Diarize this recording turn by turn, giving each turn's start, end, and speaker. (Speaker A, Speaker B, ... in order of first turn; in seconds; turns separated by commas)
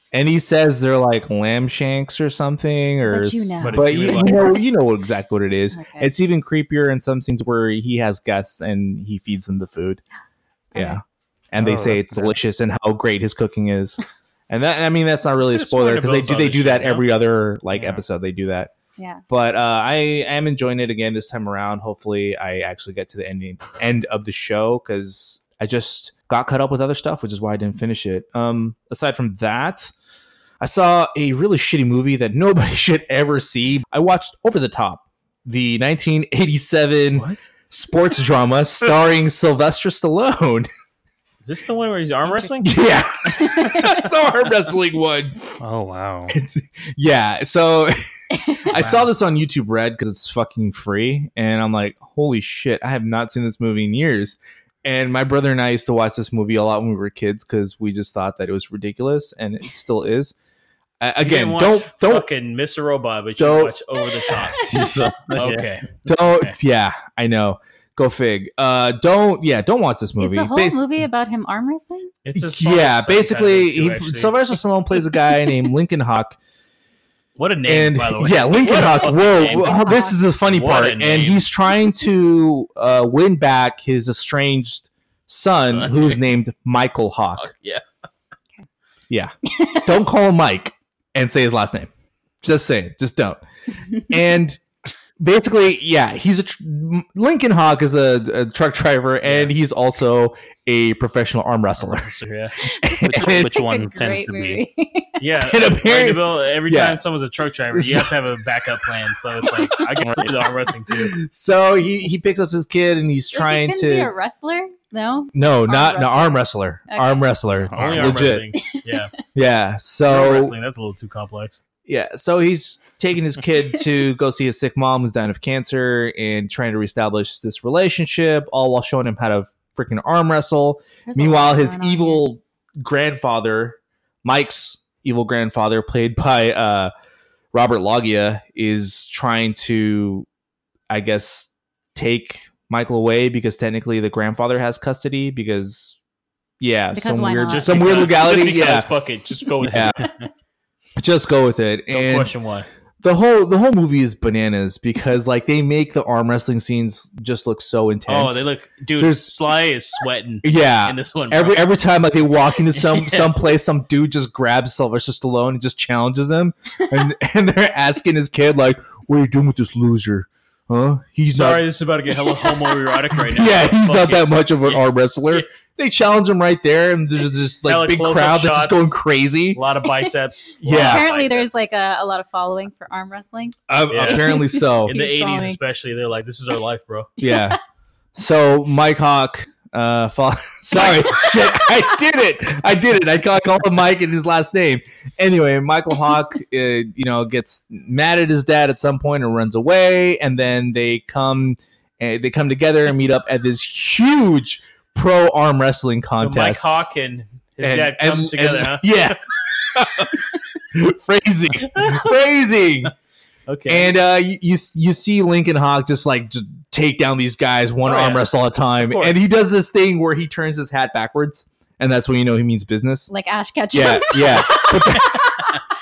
Speaker A: 0.1-10.0, Speaker B: 3.0-4.7, Speaker C: 3.6-4.6, Speaker B: 5.7-6.1, Speaker B: 10.7-11.0, Speaker A: 10.7-14.0, Speaker D: 11.6-12.4, Speaker A: 14.5-18.7, Speaker C: 15.5-17.1, Speaker D: 17.7-18.0, Speaker B: 19.0-19.2, Speaker A: 19.3-29.9, Speaker A: 30.6-40.7, Speaker C: 37.1-37.4, Speaker C: 41.5-42.8, Speaker A: 42.6-45.4, Speaker B: 43.4-43.9, Speaker D: 45.6-46.4, Speaker A: 46.3-48.0, Speaker B: 48.3-48.7, Speaker A: 48.6-60.4, Speaker C: 48.7-49.1, Speaker A: 61.0-62.3, Speaker C: 61.2-66.5, Speaker A: 63.4-63.8, Speaker A: 64.3-65.5, Speaker D: 65.2-65.7, Speaker A: 66.0-70.9, Speaker B: 70.2-72.2, Speaker C: 72.2-74.5, Speaker A: 72.3-76.4, Speaker C: 77.4-81.4, Speaker A: 77.7-87.5, Speaker B: 79.0-80.2, Speaker C: 85.7-86.2, Speaker C: 87.4-87.8, Speaker A: 89.1-91.9, Speaker B: 89.5-89.8, Speaker A: 92.4-93.4, Speaker A: 94.0-94.6, Speaker A: 95.2-102.1, Speaker C: 99.2-99.5, Speaker C: 101.8-102.6, Speaker B: 102.7-105.2, Speaker A: 102.8-103.5, Speaker D: 103.0-104.6, Speaker C: 105.2-111.1, Speaker A: 105.4-107.0, Speaker A: 107.7-108.3, Speaker D: 110.0-110.3, Speaker A: 110.9-114.1, Speaker B: 113.3-117.2, Speaker A: 115.3-118.5, Speaker D: 117.7-118.3, Speaker C: 117.8-119.1, Speaker A: 119.3-120.5, Speaker C: 120.1-121.6, Speaker A: 121.9-136.9, Speaker B: 131.1-132.2, Speaker A: 137.5-140.3, Speaker A: 140.9-146.0, Speaker A: 146.6-148.9, Speaker B: 146.9-148.0, Speaker C: 147.5-150.1, Speaker A: 149.6-150.0, Speaker A: 151.0-152.3, Speaker C: 151.9-152.7, Speaker A: 153.0-158.5, Speaker C: 158.1-161.6, Speaker A: 159.0-159.3, Speaker A: 160.4-171.7, Speaker C: 162.7-163.3, Speaker C: 171.3-175.5, Speaker B: 172.4-172.8, Speaker A: 173.1-179.6, Speaker C: 177.7-178.9, Speaker C: 179.5-181.7, Speaker A: 180.6-181.1, Speaker B: 180.7-185.6, Speaker A: 183.7-184.9, Speaker C: 183.9-187.1, Speaker A: 187.2-187.6, Speaker B: 187.2-187.6, Speaker A: 188.2-206.7, Speaker B: 190.8-191.7, Speaker C: 206.2-209.2, Speaker A: 207.6-209.2, Speaker A: 209.7-212.9, Speaker C: 211.7-212.1, Speaker C: 213.5-213.9, Speaker A: 213.7-223.1, Speaker C: 217.8-218.3, Speaker C: 218.8-219.2, Speaker B: 223.1-225.5, Speaker A: 223.7-225.3